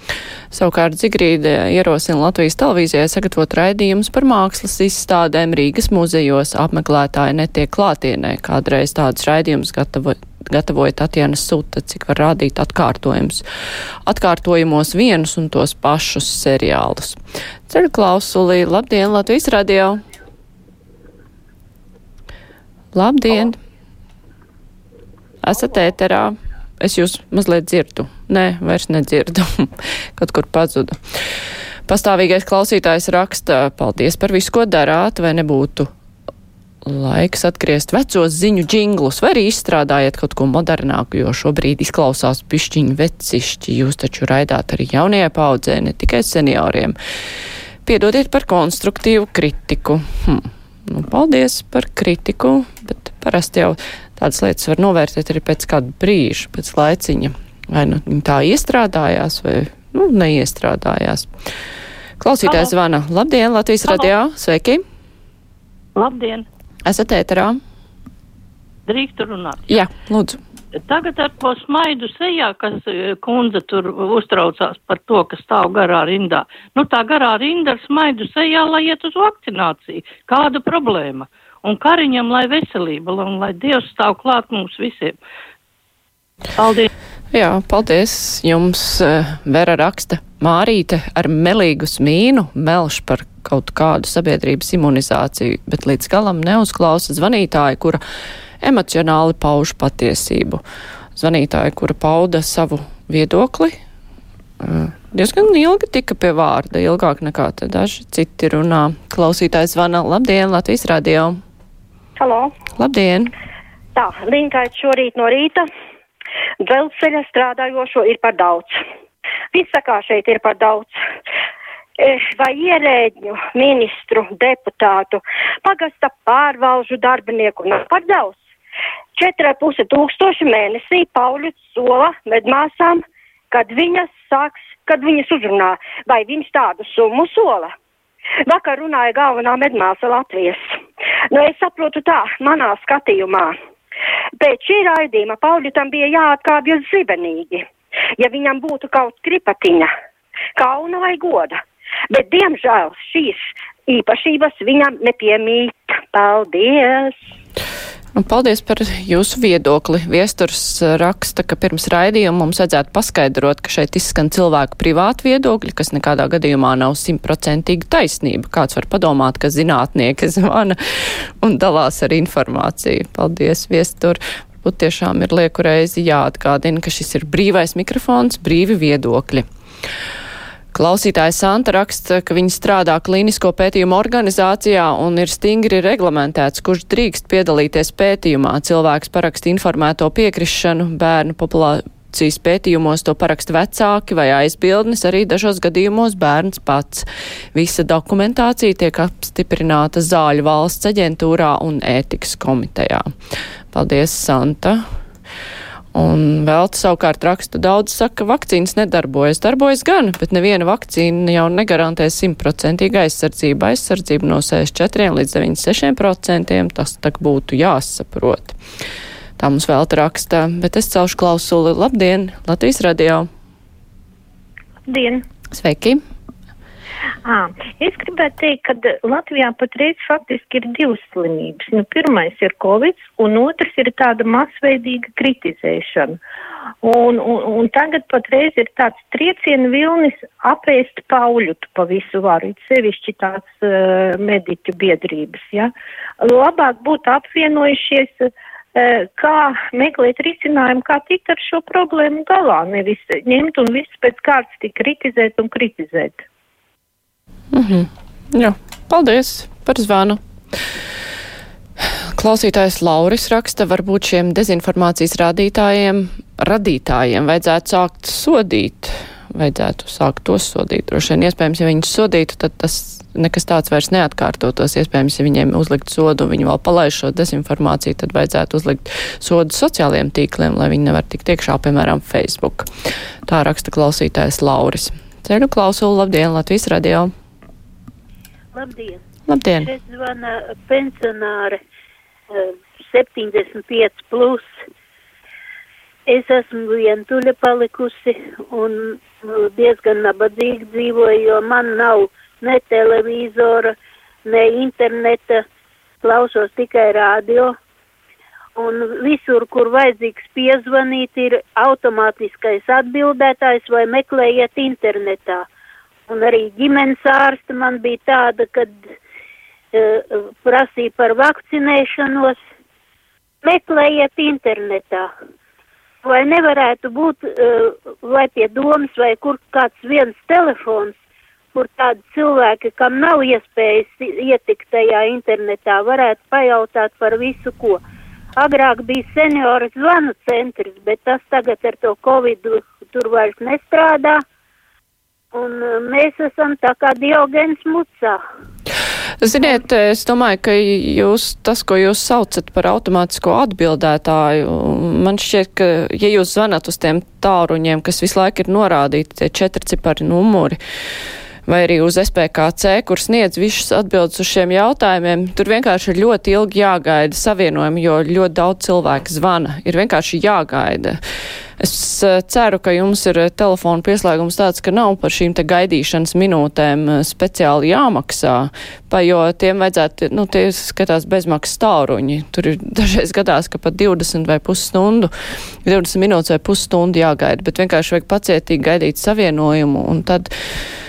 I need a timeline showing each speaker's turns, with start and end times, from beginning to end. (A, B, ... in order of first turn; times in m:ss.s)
0:00.5-0:13.4 A
0:14.1-0:20.0 A
0:22.9-0:23.6 A
0:25.4-0:31.0 A
0:31.9-0:35.9 A
0:36.9-0:47.0 A
0:47.8-1:01.3 A
1:02.2-1:04.8 A
1:02.5-1:02.7 B
1:06.0-1:06.5 B
1:06.8-1:07.6 A
1:08.9-1:09.7 B
1:09.7-1:10.4 A
1:10.9-1:25.2 B
1:26.6-1:26.9 B
1:27.3-1:38.0 A
1:38.6-1:40.6 A
1:41.2-1:43.8 A
1:44.6-1:51.4 A
1:52.2-1:52.5 C
1:52.8-1:53.3 A
1:54.0-1:55.6 C
1:56.6-1:58.8 C
1:59.5-2:00.9 C
2:02.0-2:08.4 C
2:09.2-2:17.7 C
2:18.5-2:20.6 C
2:21.3-2:23.5 C
2:24.4-2:27.6 C
2:28.2-2:29.9 C
2:30.6-2:31.5 C
2:32.1-2:37.1 C
2:38.2-2:59.4 A
3:00.7-3:23.0 A
3:23.7-3:24.8 A
3:26.0-3:38.6 A
3:39.4-3:43.3 A
3:44.9-3:45.2 D
3:45.5-3:46.0 A
3:47.2-3:56.2 D
3:56.8-4:16.2 D
4:17.5-4:20.2 A
4:22.2-4:42.7 A
4:43.3-4:47.1 A
4:48.5-4:49.0 E
4:49.3-4:49.7 A
4:49.6-4:51.6 E
4:52.3-4:54.5 E
4:56.1-5:05.4 E
5:06.0-5:07.6 E
5:08.6-5:15.5 E
5:16.1-5:18.8 E
5:19.7-5:22.4 E
5:23.4-5:25.1 E
5:26.0-5:31.0 E
5:31.5-5:37.8 E
5:38.4-5:44.2 E
5:45.3-5:48.2 E
5:49.2-6:00.6 A
6:01.5-6:11.0 A
6:11.6-6:25.1 A
6:25.6-6:30.3 A